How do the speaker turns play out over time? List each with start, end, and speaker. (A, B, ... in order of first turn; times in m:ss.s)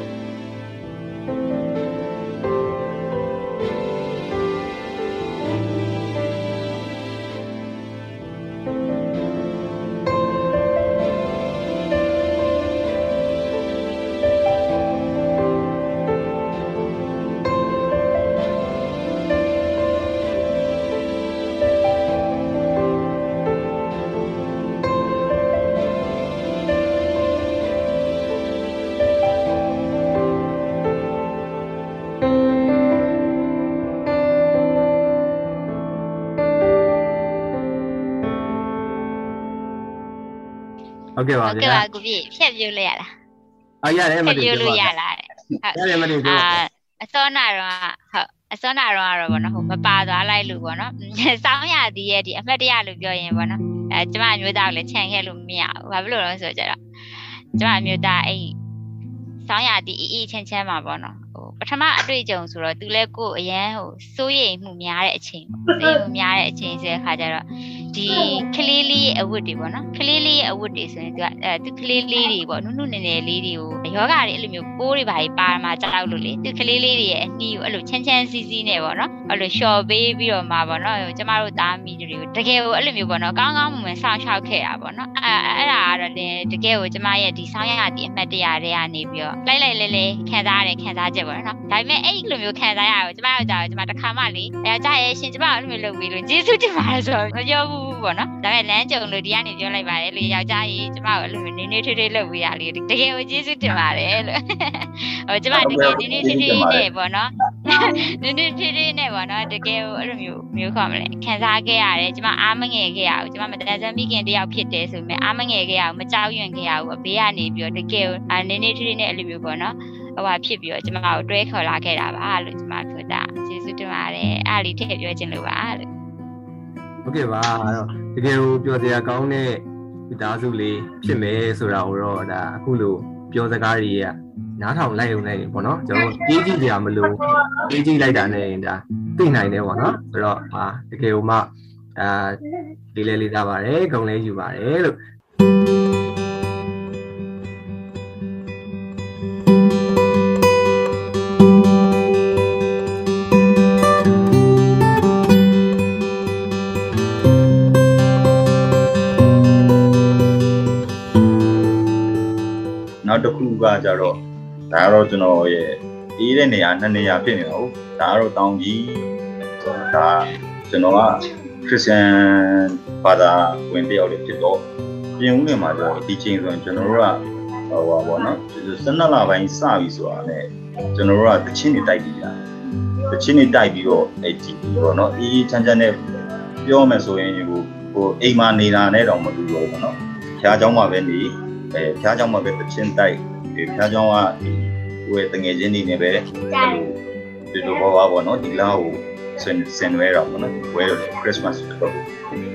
0:41.2-0:41.8 A
0:41.4-0:43.1 B
0:43.8-0:44.9 A
0:44.3-0:56.8 B
0:45.7-0:46.6 A
0:57.6-0:58.5 B
0:59.5-2:05.9 B
1:45.6-1:46.9 C
2:07.1-2:22.4 A
2:22.9-2:25.0 A
2:43.0-2:54.6 C
2:55.2-3:02.4 C
3:03.1-3:06.0 C
3:06.6-3:17.0 C
3:17.5-3:22.0 C